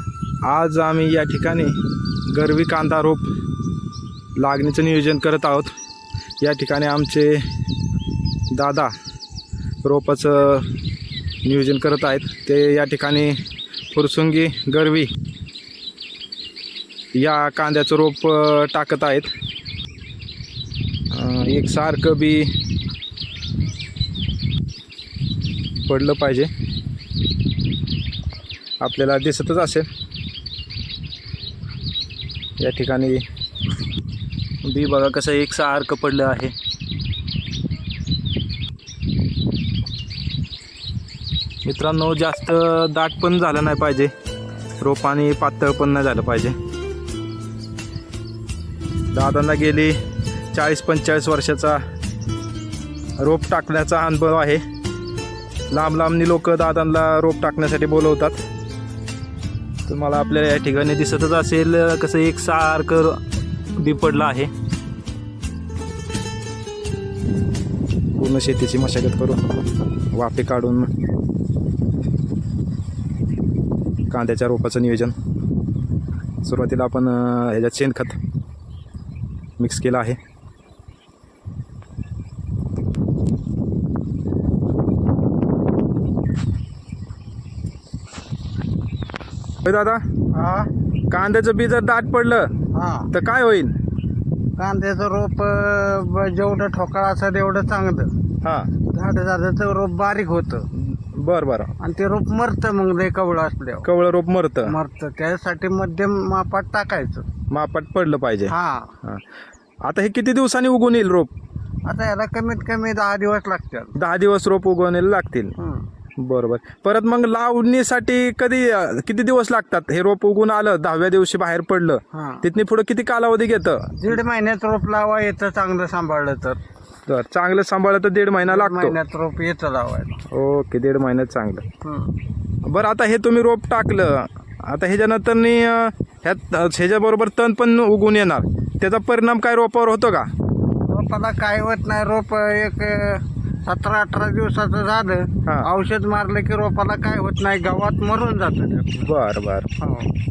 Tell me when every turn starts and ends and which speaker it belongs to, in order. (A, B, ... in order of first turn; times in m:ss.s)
0:00.4-0:03.3 A
0:04.4-0:05.7 A
0:06.4-0:07.5 A
0:08.5-0:08.9 A
0:09.8-0:10.8 A
0:11.4-0:15.1 A
0:17.1-0:19.3 A
0:21.1-0:22.6 A
0:25.8-0:26.5 A
0:28.8-0:29.9 A
0:32.6-0:33.2 A
0:34.6-0:36.5 A
0:41.6-0:44.1 A
0:44.8-0:46.6 A
0:49.1-0:50.0 A
0:50.5-0:51.8 A
0:53.2-0:54.6 A
0:55.7-0:58.4 A
0:59.9-1:03.2 A
1:03.8-1:04.5 A
1:08.2-1:09.6 A
1:10.1-1:10.9 A
1:14.1-1:15.1 A
1:16.4-1:18.2 A
1:19.6-1:20.2 A
1:29.6-1:30.0 A
1:30.3-1:30.7 B
1:31.1-1:32.5 A
1:32.7-1:33.1 B
1:33.1-1:33.7 A
1:34.6-1:38.1 B
1:38.4-1:38.7 A
1:38.9-1:40.7 B
1:40.7-1:41.7 A
1:41.8-1:43.9 B
1:43.8-1:44.7 A
1:44.6-1:47.2 B
1:47.5-1:49.2 A
1:48.5-1:49.0 B
1:49.8-1:51.3 A
1:51.8-1:54.0 B
1:54.0-1:55.5 A
1:55.6-1:55.9 B
1:56.2-2:04.2 A
2:02.1-2:02.5 B
2:04.0-2:06.6 B
2:07.0-2:09.0 A
2:08.4-2:10.2 B
2:10.3-2:11.6 A
2:11.8-2:12.2 B
2:12.6-2:20.3 A
2:20.9-2:29.1 B
2:29.0-2:29.7 A
2:29.8-2:30.1 B